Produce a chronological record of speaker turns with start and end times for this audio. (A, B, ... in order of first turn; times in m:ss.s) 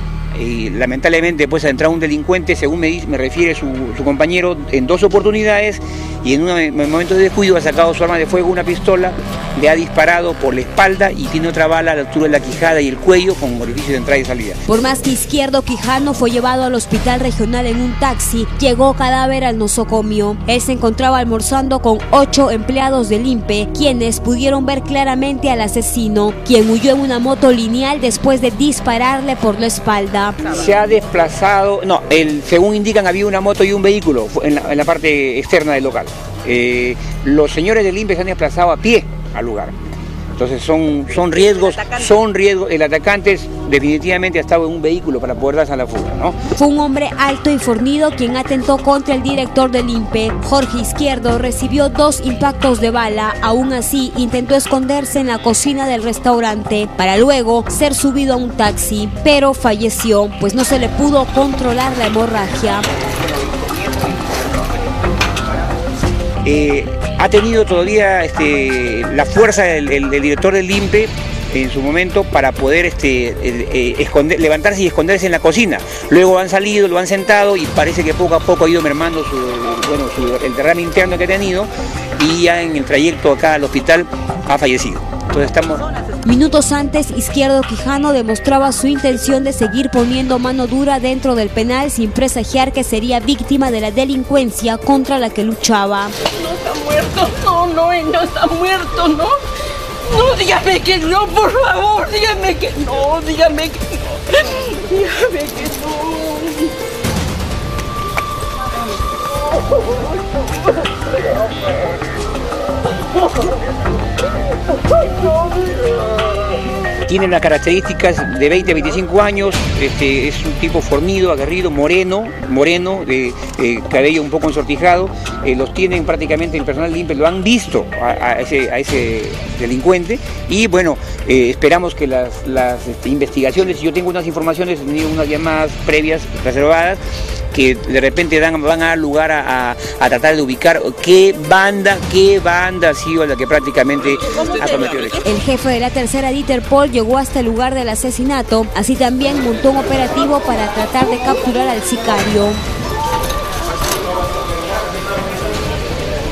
0:00.3-0:14.6 A
0:14.7-0:30.5 B
0:30.4-0:39.8 A
0:40.4-0:46.4 A
0:41.7-0:42.1 C
0:46.6-1:02.8 B
1:06.4-1:25.8 A
1:26.2-1:36.1 B
1:36.2-1:39.4 C
1:40.0-1:46.7 C
1:57.1-2:17.0 A
2:17.5-2:25.2 A
2:24.2-2:25.2 C
2:25.2-2:32.6 B